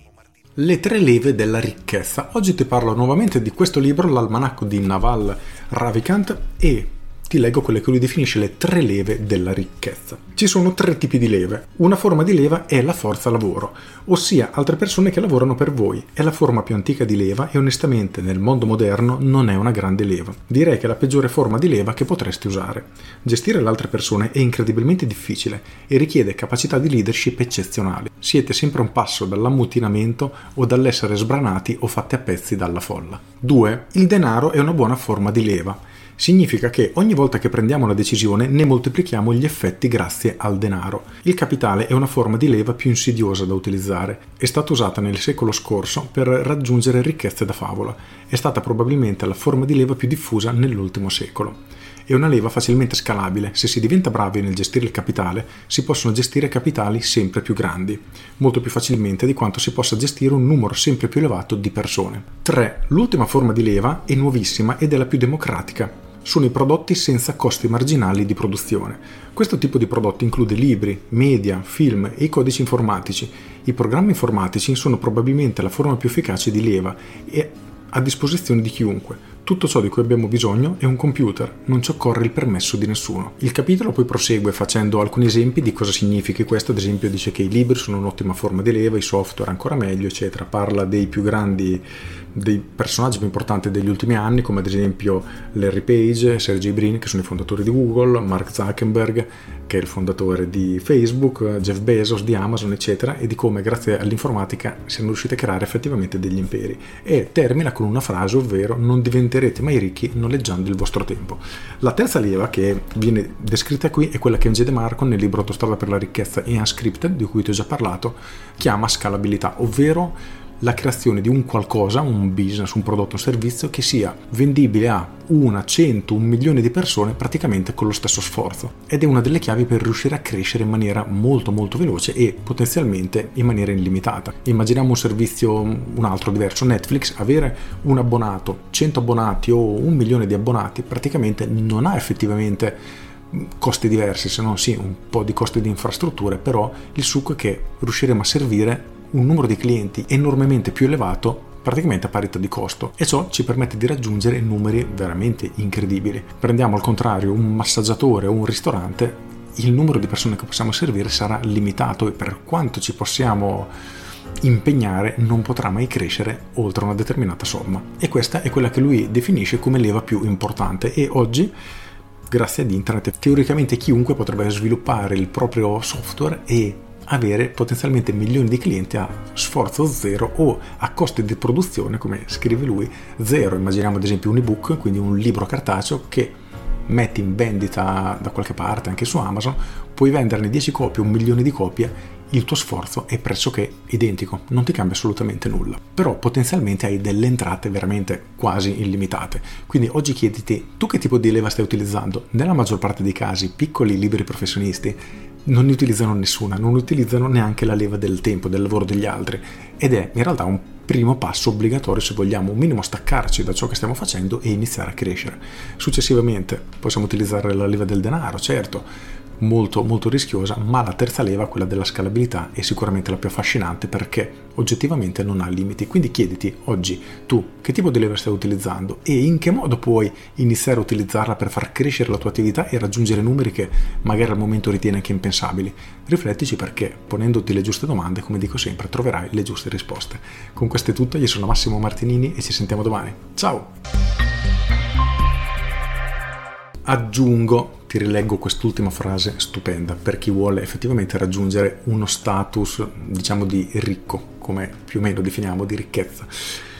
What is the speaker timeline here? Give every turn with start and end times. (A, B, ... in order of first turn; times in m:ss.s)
0:00.6-2:22.8 A
2:23.3-2:43.7 A
2:44.4-2:51.5 A
2:52.3-3:38.9 A
3:39.4-4:03.7 A
4:06.8-4:16.3 A